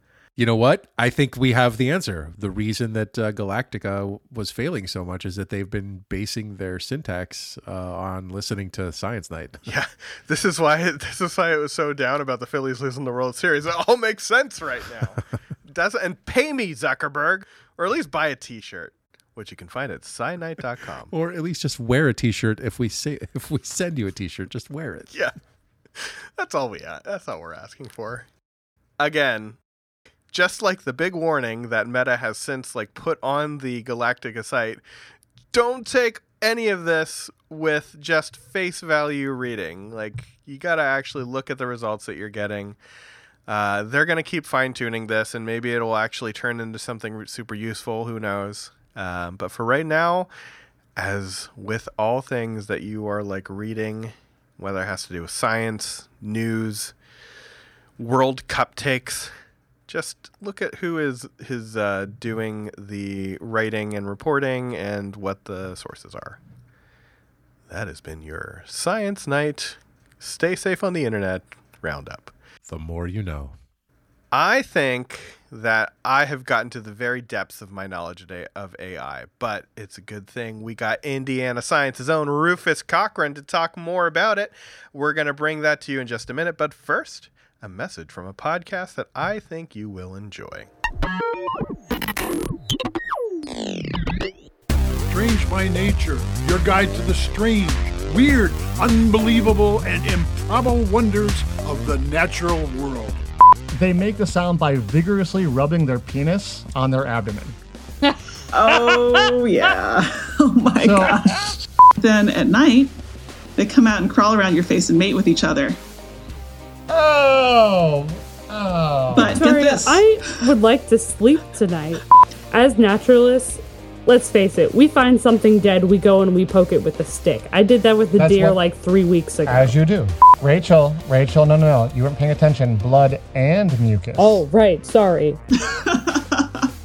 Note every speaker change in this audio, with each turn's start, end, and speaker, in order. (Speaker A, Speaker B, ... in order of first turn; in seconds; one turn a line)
Speaker A: 0.4-9.7
Speaker B: 9.7-21.1
Speaker A: 21.1-25.1
Speaker B: 25.9-28.3
Speaker B: 29.0-29.6
Speaker B: 30.3-34.8
Speaker B: 35.5-42.8
Speaker B: 43.5-50.3
Speaker B: 51.0-56.9
Speaker B: 58.0-59.3
Speaker B: 59.9-66.4
Speaker B: 67.7-72.3
Speaker A: 72.7-73.6
Speaker B: 74.3-90.7
Speaker C: 95.1-103.2
Speaker D: 103.7-107.6
Speaker E: 108.5-112.9
Speaker D: 110.8-111.3
Speaker E: 113.6-115.8
Speaker D: 116.9-119.4
Speaker E: 119.1-120.5
Speaker F: 119.3-122.0
Speaker F: 122.5-129.8
Speaker D: 128.2-128.6
Speaker D: 129.5-134.4
Speaker F: 134.2-135.4
Speaker E: 135.6-136.7